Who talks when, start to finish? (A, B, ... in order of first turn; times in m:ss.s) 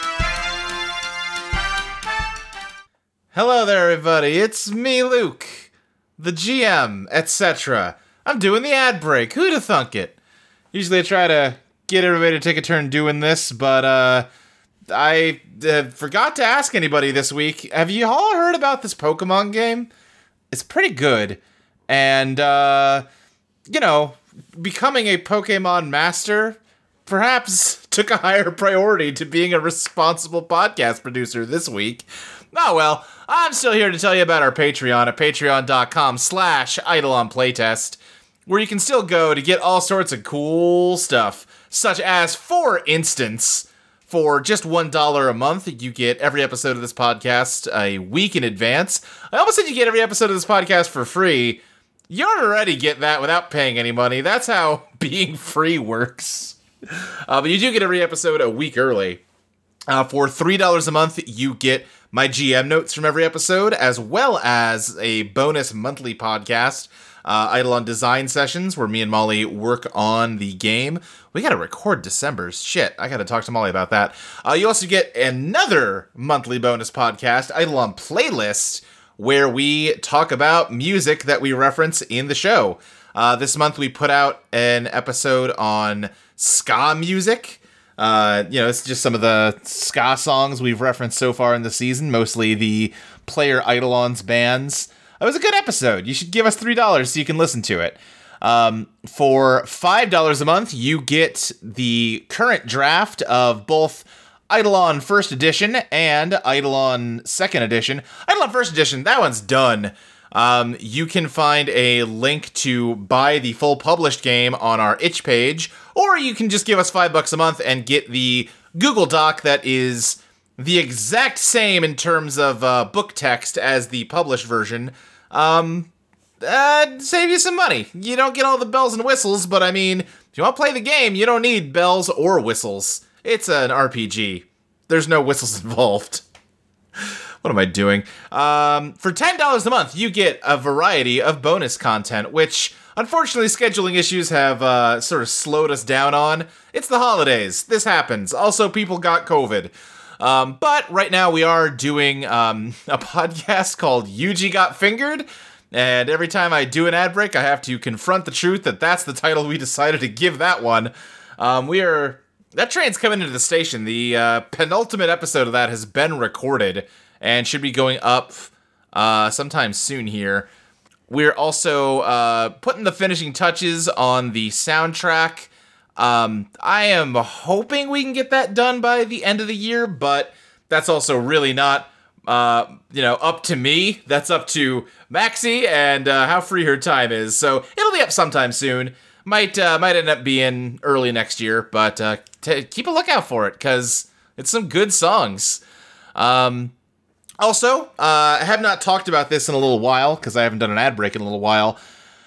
0:03.3-0:10.2 A
0:10.7-0:14.3 A
0:14.9-0:19.9 A
0:20.5-0:23.0 A
0:23.7-0:56.6 A
0:57.3-0:59.2 A
0:59.9-2:05.9 A
2:06.4-2:16.2 A
2:17.4-2:50.5 A
2:51.1-3:15.6 A
3:16.1-3:16.7 A
3:17.4-3:21.8 A